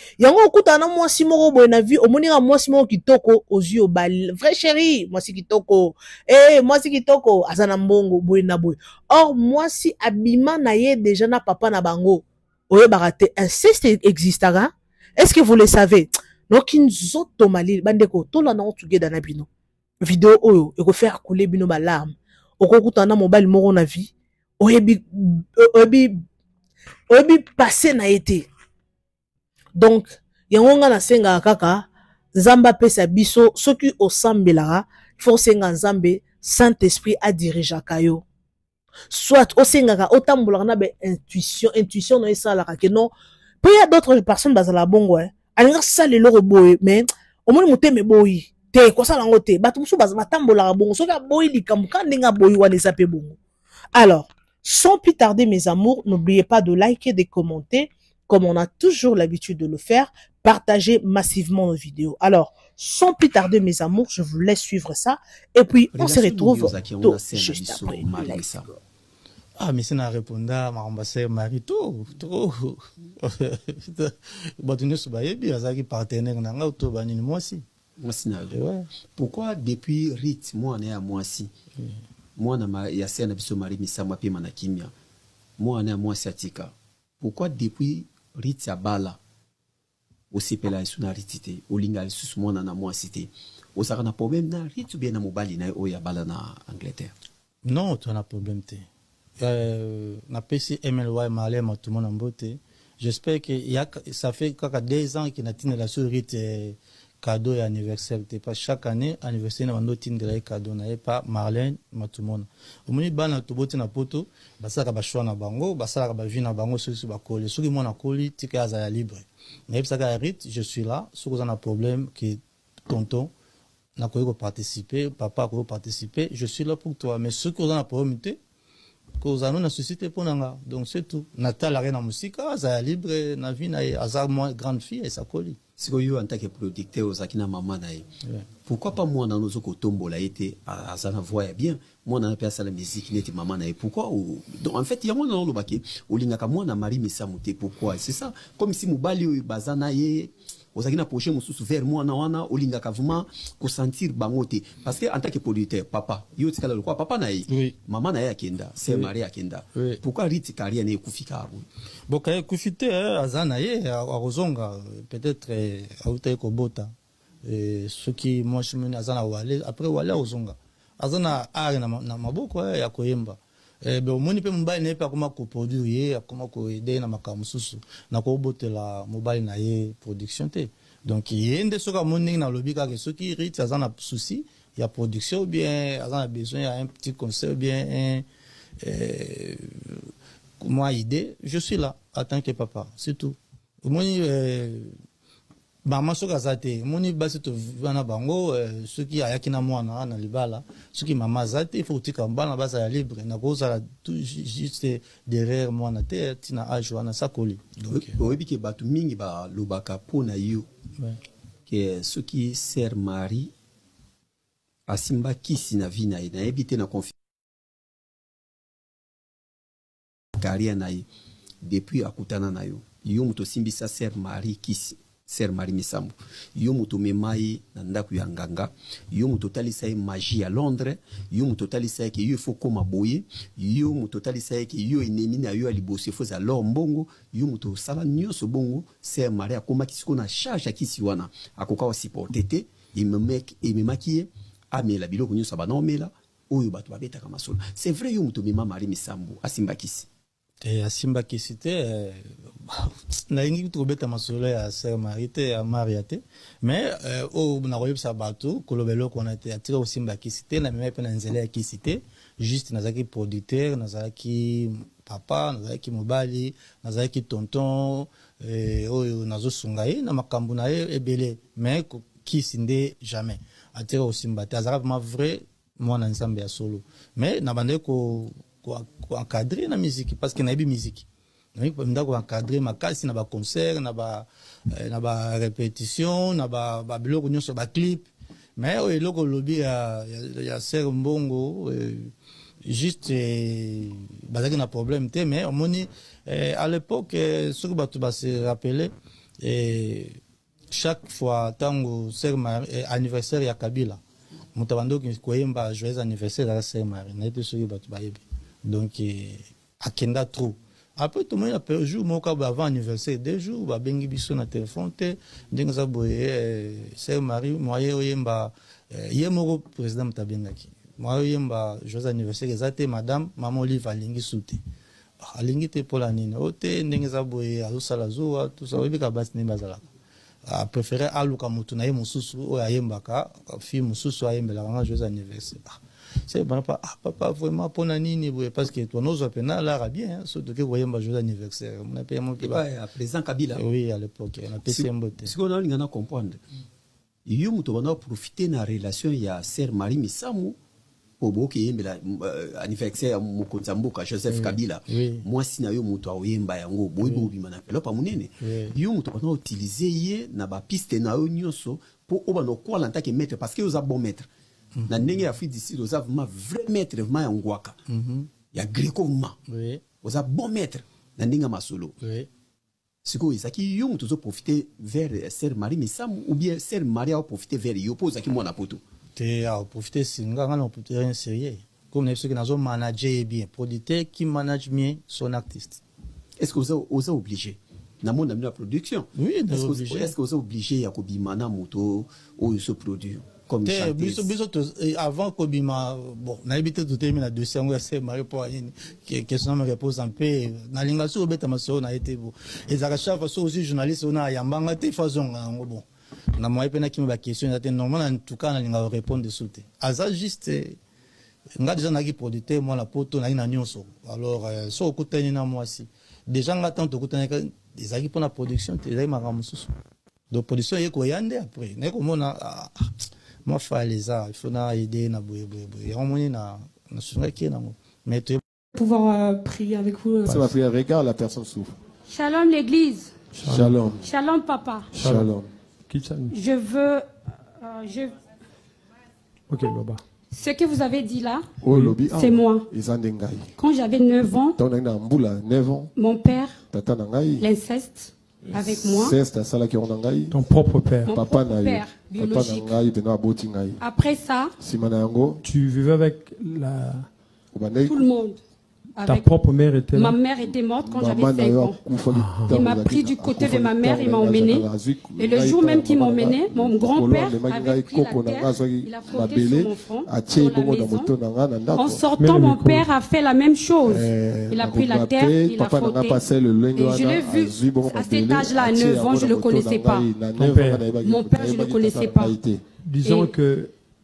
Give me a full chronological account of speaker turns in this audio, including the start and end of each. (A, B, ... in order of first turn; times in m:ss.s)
0:00.2-0:19.5 A
0:20.0-0:26.2 A
0:27.1-0:28.5 A
0:29.8-0:38.2 A
0:39.1-0:43.1 A
0:43.6-0:53.4 A
0:53.9-1:08.5 A
1:05.9-1:08.7 B
1:09.6-1:17.6 C
1:18.0-1:18.6 B
1:18.5-1:18.9 C
1:19.2-1:21.5 B
1:22.4-1:24.9 B
1:25.6-1:29.2 B
1:30.3-1:37.1 B
1:37.6-1:38.8 C
1:39.4-2:03.3 C
2:04.0-2:08.4 C
2:09.2-2:15.6 C
2:15.8-2:18.1 B
2:18.6-2:41.7 B
2:37.5-2:37.7 C
2:39.7-2:40.0 C
2:42.1-2:46.9 C
2:47.4-3:08.2 C
3:08.8-3:10.1 C
3:10.6-3:14.9 C
3:15.8-3:28.2 C
3:27.9-3:30.7 B
3:31.7-3:33.5 B
3:34.9-3:37.1 B
3:40.4-3:41.1 B
3:41.6-4:10.1 B
4:10.6-4:52.1 C
4:52.6-5:00.2 C
5:00.7-5:04.0 C
5:04.5-5:24.6 C
5:25.2-5:29.9 C
5:30.5-5:42.6 C
5:42.4-5:43.6 B
5:43.5-5:45.3 C
5:44.6-5:46.4 B
5:47.2-5:50.6 B
5:51.2-6:04.3 B
5:54.3-5:55.2 C
5:57.0-5:57.3 C
5:58.4-5:58.8 C
6:04.8-6:05.1 C
6:04.9-6:07.8 B
6:07.9-6:08.3 C
6:08.5-6:09.4 B
6:09.5-6:09.8 C
6:10.0-6:12.0 B
6:12.0-6:12.3 C
6:13.0-6:18.8 B
6:19.2-6:25.8 C
6:26.4-6:34.3 B
6:29.1-6:30.1 C
6:33.6-6:45.8 C
6:46.4-6:50.8 C
6:51.6-6:59.7 C
7:00.3-7:02.9 C
7:03.4-7:08.4 C
7:08.7-7:10.5 D
7:10.2-7:11.7 E
7:12.1-7:13.2 D
7:13.3-7:13.8 F
7:13.4-7:14.0 E
7:14.0-7:14.9 D
7:14.9-7:15.3 F
7:14.9-7:15.5 E
7:15.9-7:16.3 F
7:16.3-7:17.1 D
7:17.6-7:18.1 D
7:19.5-7:20.0 F
7:20.3-7:21.5 D
7:21.6-7:23.5 E
7:21.7-7:22.0 F
7:22.1-7:22.7 D
7:23.6-7:24.6 D
7:24.6-7:25.9 E
7:26.0-7:26.6 D
7:26.7-7:27.4 E
7:27.4-7:29.2 D
7:28.5-7:30.4 E
7:30.3-7:31.1 F
7:31.0-7:32.7 D
7:31.1-7:33.8 E
7:33.8-7:34.5 D
7:34.6-7:35.4 E
7:35.4-7:37.1 F
7:37.5-7:38.0 E
7:37.9-7:38.4 D
7:39.0-7:39.3 D
7:39.0-7:40.2 F
7:39.9-7:41.8 D
7:40.8-7:52.0 E
7:42.1-7:42.5 F
7:42.5-7:44.7 D
7:45.2-7:51.1 D
7:51.8-7:56.2 D
7:52.2-7:52.9 F
7:53.8-8:02.6 E
7:56.7-8:00.1 D
8:00.4-8:00.8 F
8:01.0-8:02.4 D
8:02.8-8:03.7 F
8:03.0-8:03.3 D